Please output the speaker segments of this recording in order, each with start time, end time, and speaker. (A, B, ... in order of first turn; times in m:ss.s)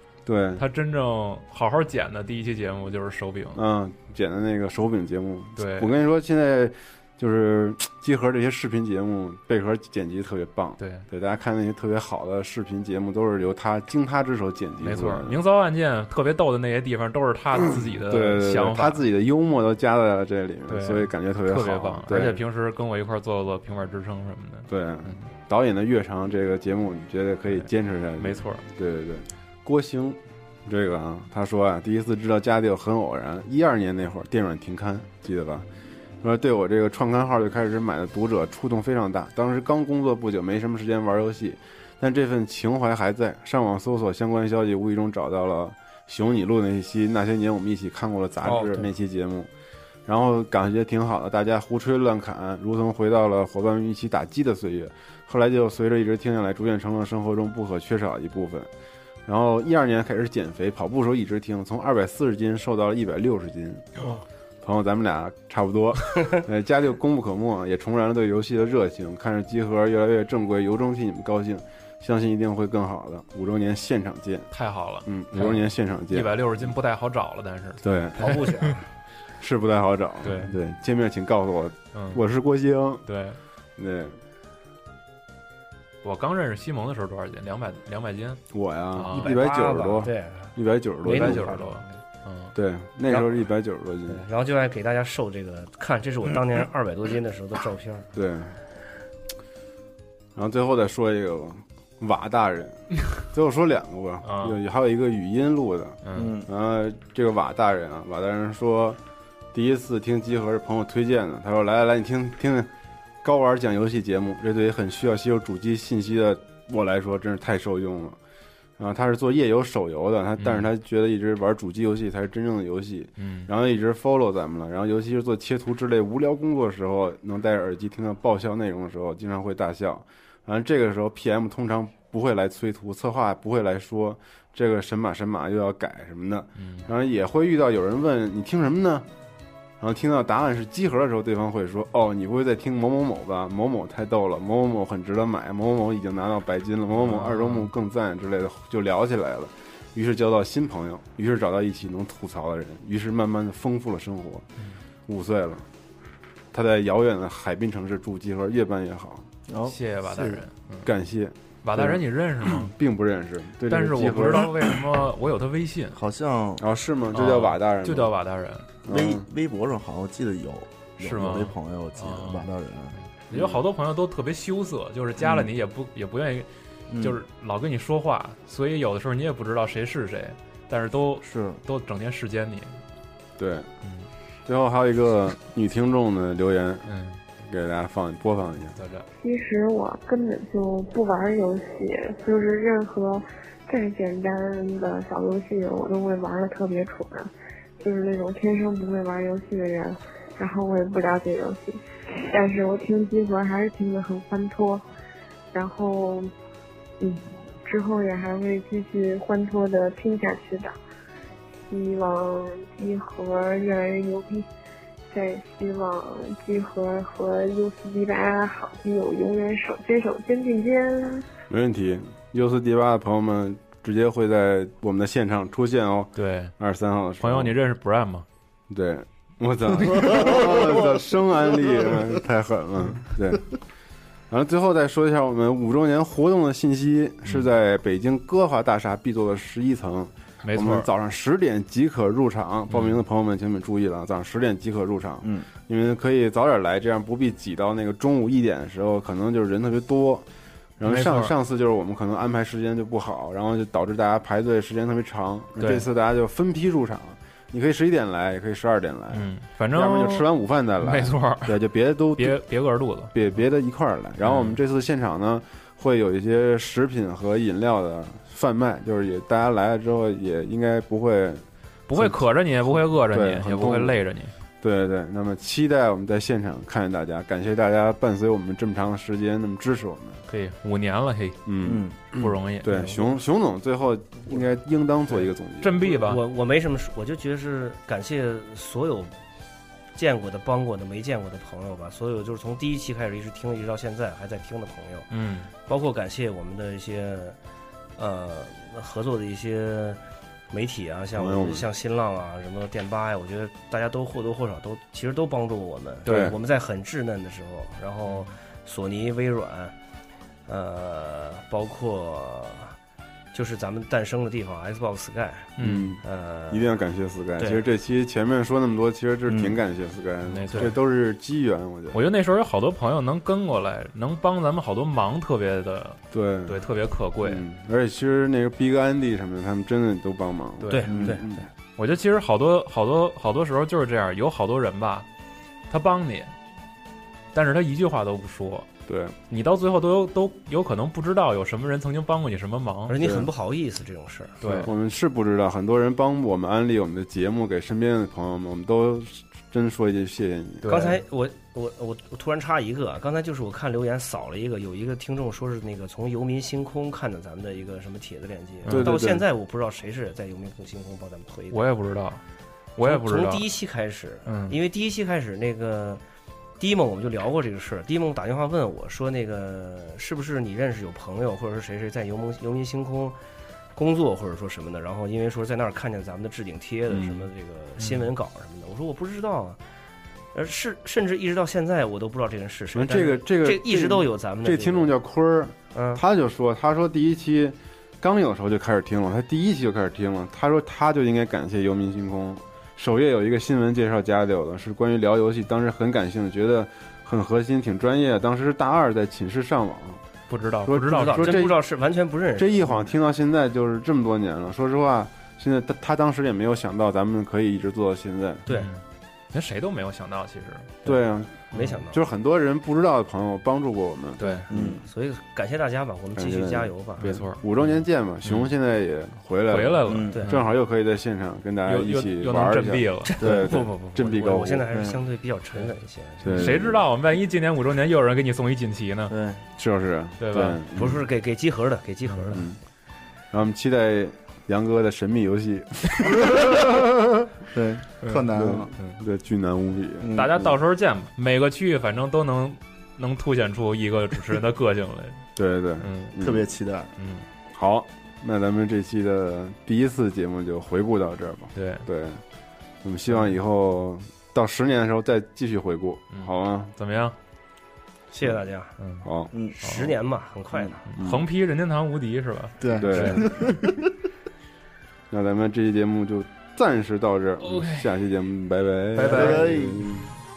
0:00.2-0:00.6 A
0:00.6-0:03.6 B
0:03.5-0:15.4 A
0:05.6-0:05.9 B
0:10.8-0:11.0 B
0:14.8-0:19.0 B
0:17.6-0:22.4 A
0:20.7-0:25.2 B
0:24.7-0:35.7 A
0:27.5-0:28.6 B
0:36.2-0:49.5 A
0:48.4-0:48.8 C
0:50.0-0:58.7 A
0:59.2-1:04.1 A
1:04.6-1:14.5 A
1:14.5-1:18.7 B
1:15.0-1:16.4 A
1:17.8-1:18.5 A
1:18.2-1:18.8 D
1:19.4-1:23.0 A
1:20.2-1:20.5 B
1:21.9-1:22.2 B
1:23.0-1:23.4 B
1:23.8-1:24.2 A
1:26.0-1:29.3 B
1:28.5-1:31.5 A
1:29.1-1:32.0 C
1:31.1-1:32.5 B
1:32.5-1:34.2 A
1:33.1-1:33.5 C
1:34.1-1:38.1 C
1:38.1-1:38.6 A
1:40.3-1:49.0 A
1:44.2-1:44.6 B
1:46.0-1:46.3 B
1:46.1-1:46.5 D
1:49.5-1:52.7 A
1:53.2-1:58.2 A
1:58.8-2:19.0 A
2:00.4-2:00.7 B
2:03.2-2:03.5 B
2:16.6-2:16.9 B
2:19.8-2:34.4 A
2:26.9-2:27.7 B
2:35.1-2:35.6 A
2:36.5-2:39.3 A
2:39.5-2:40.4 D
2:39.6-2:40.9 B
2:40.8-2:44.7 A
2:41.6-2:42.7 B
2:43.7-2:46.0 B
2:45.9-2:46.6 D
2:46.6-2:48.1 A
2:47.1-2:48.7 B
2:48.8-2:49.3 A
2:48.8-2:53.0 D
2:51.0-2:56.5 B
2:53.3-2:53.6 A
2:56.9-2:57.2 D
2:57.0-3:02.8 B
3:01.2-3:01.6 D
3:03.4-3:03.7 A
3:03.8-3:04.1 B
3:04.4-3:08.8 A
3:06.9-3:07.2 B
3:08.8-3:09.1 B
3:09.2-3:24.8 E
3:25.5-3:26.3 E
3:27.0-3:30.7 E
3:31.7-3:34.5 E
3:35.1-3:41.3 E
3:41.5-3:47.5 A
3:46.2-3:46.5 B
3:47.2-3:48.2 B
3:48.7-3:53.5 A
3:49.8-3:50.2 B
3:50.1-3:50.7 D
3:54.3-4:10.2 A
4:00.4-4:00.9 B
4:02.7-4:03.0 B
4:10.8-4:22.4 A
4:10.8-4:11.3 B
4:15.6-4:15.8 B
4:19.1-4:21.6 B
4:22.2-4:23.1 B
4:23.1-4:31.4 A
4:24.2-4:24.6 B
4:31.9-4:34.3 B
4:33.0-4:33.9 A
4:34.6-4:40.2 A
4:40.3-4:41.4 B
4:41.4-4:46.0 A
4:41.6-4:42.0 D
4:42.1-4:42.9 B
4:42.7-4:43.0 C
4:45.1-4:46.2 B
4:46.0-4:49.1 C
4:49.9-4:55.1 C
4:55.1-4:55.5 B
4:55.6-4:57.4 C
4:58.0-5:09.7 C
5:01.1-5:01.7 A
5:06.0-5:06.3 B
5:06.0-5:06.4 A
5:10.5-5:12.8 C
5:13.3-5:15.5 C
5:15.6-5:15.9 B
5:15.6-5:22.0 A
5:16.0-5:16.7 C
5:17.4-5:17.6 C
5:19.3-5:19.6 D
5:20.2-5:20.7 B
5:21.9-5:27.4 B
5:26.1-5:26.6 A
5:27.2-5:31.4 A
5:30.6-5:31.2 B
5:30.7-5:31.2 C
5:30.9-5:31.2 D
5:31.8-5:35.0 B
5:35.7-5:36.3 B
5:37.3-5:38.7 B
5:38.9-5:39.1 A
5:39.3-5:43.0 B
5:42.9-5:44.6 C
5:43.0-5:43.3 A
5:44.4-5:44.7 B
5:44.4-5:50.8 A
5:50.6-5:51.0 B
5:50.6-6:01.6 C
5:58.6-5:59.0 B
5:58.7-5:59.2 A
6:01.5-6:02.2 B
6:02.8-6:03.4 B
6:02.8-6:06.0 C
6:04.2-6:04.6 B
6:06.6-6:13.2 C
6:13.7-6:19.6 C
6:16.9-6:17.2 A
6:17.8-6:18.1 B
6:20.3-6:24.9 C
6:22.7-6:40.0 A
6:25.7-6:26.0 C
6:40.3-6:41.5 B
6:40.6-6:41.6 A
6:40.8-6:42.9 C
6:42.4-6:48.4 A
6:48.5-6:50.8 B
6:50.8-6:54.2 A
6:51.5-6:52.0 C
6:54.2-6:54.4 B
6:54.2-6:57.1 C
6:54.5-6:54.8 D
6:56.2-7:04.7 A
6:57.0-6:58.5 B
6:59.5-7:00.4 B
6:59.9-7:00.2 D
7:00.1-7:00.4 C
7:01.6-7:03.2 B
7:03.0-7:06.5 C
7:03.2-7:03.6 D
7:04.7-7:05.0 D
7:06.2-7:06.8 A
7:06.2-7:09.1 B
7:09.1-7:09.4 D
7:09.6-7:11.0 A
7:10.2-7:10.6 B
7:10.7-7:12.4 C
7:12.1-7:12.4 B
7:12.3-7:12.6 A
7:13.3-7:16.8 A
7:16.1-7:16.5 D
7:17.5-7:18.7 D
7:18.0-7:19.0 B
7:18.3-7:20.5 A
7:20.0-7:20.3 D
7:20.1-7:25.2 B
7:25.4-7:26.4 A
7:25.8-7:26.1 B
7:26.2-7:26.9 D
7:27.0-7:27.2 B
7:27.5-7:32.2 A
7:31.5-7:31.9 B
7:32.8-7:36.7 A
7:33.1-7:33.4 B
7:36.1-7:37.2 B
7:38.1-7:38.8 C
7:38.8-7:39.1 B
7:39.0-7:39.3 A
7:39.3-7:39.6 D
7:39.6-7:40.8 C
7:39.6-7:39.9 B
7:40.9-7:43.3 B
7:41.0-7:41.2 A
7:42.6-7:43.9 D
7:42.8-7:43.6 A
7:45.1-7:50.1 A
7:47.4-7:47.9 B
7:48.9-7:49.6 B
7:49.1-7:49.9 D